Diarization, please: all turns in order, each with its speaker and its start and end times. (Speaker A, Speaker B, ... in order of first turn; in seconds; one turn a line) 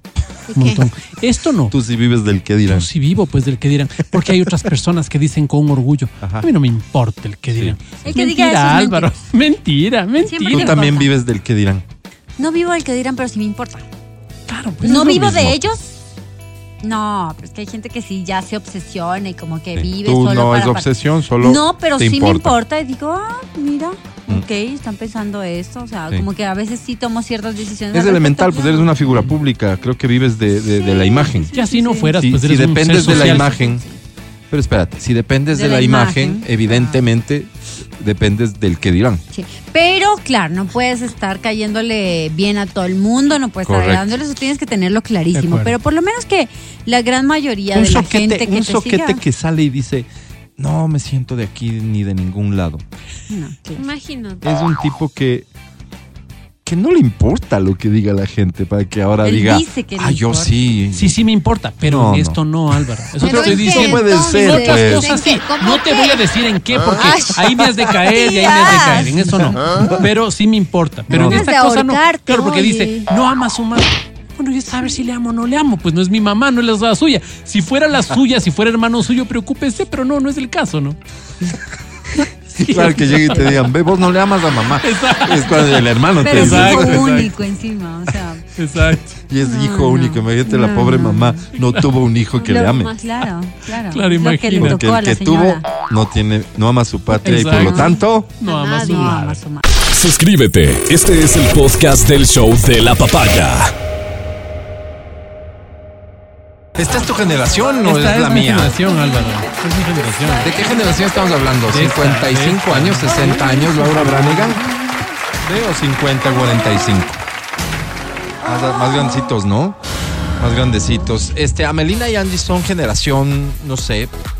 Speaker A: 0.5-0.8
Speaker B: 0.5-1.7
Speaker C: 1.7-2.9
Speaker B: 2.7-10.8
Speaker C: 6.2-6.5
Speaker D: 8.0-9.1
Speaker D: 10.2-11.1
Speaker C: 10.5-11.8
Speaker D: 12.4-13.8
Speaker B: 14.5-15.5
Speaker D: 14.8-16.0
Speaker C: 14.9-15.7
Speaker D: 16.8-20.9
Speaker C: 19.7-22.5
Speaker D: 21.4-29.0
Speaker C: 27.9-31.5
Speaker D: 30.9-32.2
Speaker B: 31.5-33.5
Speaker C: 32.2-33.8
Speaker D: 33.0-33.7
Speaker C: 34.5-39.2
Speaker D: 35.5-37.0
Speaker D: 39.3-49.2
Speaker C: 43.6-44.1
Speaker B: 45.3-45.7
Speaker C: 47.7-52.8
Speaker D: 53.3-53.8
Speaker A: 53.7-54.5
Speaker C: 54.4-55.5
Speaker C: 56.6-61.1
Speaker D: 59.2-60.5
Speaker B: 60.9-81.0
Speaker C: 61.8-62.4
Speaker C: 63.2-65.2
Speaker A: 63.2-66.2
Speaker A: 66.8-69.0
Speaker D: 67.0-67.3
Speaker D: 68.1-69.5
Speaker C: 71.1-71.5
Speaker D: 71.1-72.7
Speaker A: 72.4-73.0
Speaker B: 82.5-83.6
Speaker C: 82.6-87.1
Speaker B: 84.8-87.3
Speaker D: 86.2-88.4
Speaker B: 88.5-89.2
Speaker C: 89.3-92.9
Speaker D: 89.4-91.5
Speaker A: 92.4-92.9
Speaker D: 92.4-95.7
Speaker B: 93.8-94.8
Speaker C: 94.6-98.3
Speaker D: 97.2-99.6
Speaker B: 97.2-99.4
Speaker A: 98.6-99.0
Speaker E: 99.9-103.7
Speaker C: 106.8-108.8
Speaker B: 107.8-110.6
Speaker A: 109.0-109.5
Speaker A: 110.0-111.3
Speaker C: 110.4-114.6
Speaker B: 111.6-114.6
Speaker C: 115.4-117.2
Speaker C: 118.4-119.8
Speaker C: 120.4-124.1